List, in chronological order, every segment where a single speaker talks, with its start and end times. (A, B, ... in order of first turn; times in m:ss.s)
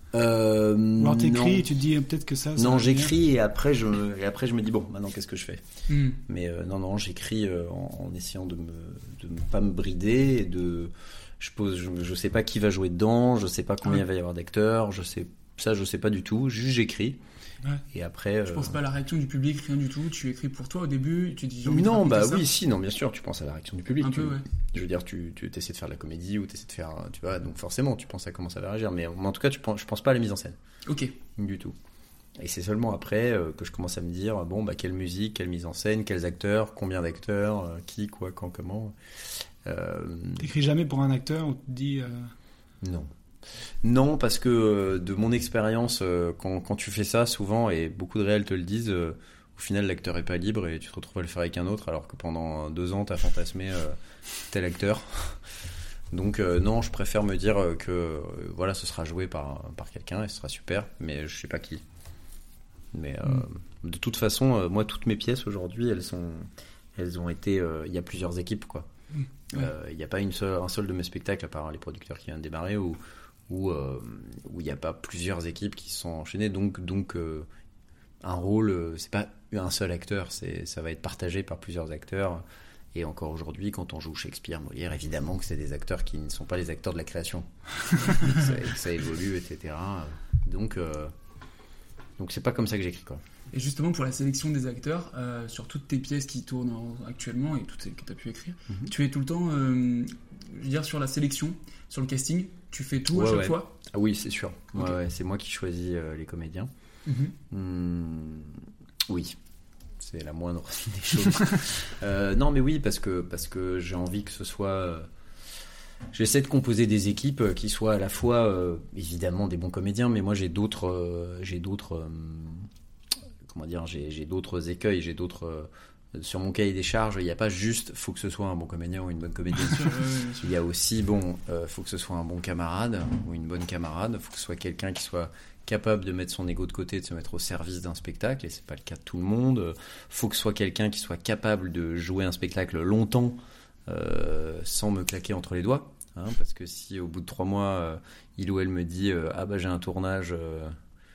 0:00.1-0:01.7 A
0:01.0-0:03.1 B
0:02.6-0:05.6 A
0:05.9-0:06.2 C
0:06.3-0:17.2 A
0:17.9-0:18.8 A
0:18.5-0:22.5 C
0:21.6-0:30.6 A
0:24.0-0:24.5 C
0:30.9-0:31.1 C
0:31.4-0:31.8 A
0:32.4-0:39.0 A
0:39.6-0:40.5 A
0:40.4-0:42.3 B
0:42.8-0:43.1 A
0:43.8-0:54.0 A
0:54.5-0:55.4 A
0:56.1-1:01.8 A
1:02.9-1:08.9 A
1:09.5-1:17.5 A
1:18.2-1:31.1 A
1:28.1-1:28.4 C
1:32.2-1:33.2 A
1:33.5-1:43.7 C
1:38.7-1:38.9 A
1:43.1-1:46.7 A
1:47.1-1:47.4 C
1:47.5-1:49.4 A
1:50.0-1:55.1 A
1:56.1-2:02.7 A
2:03.5-2:30.8 A
2:09.6-2:10.5 C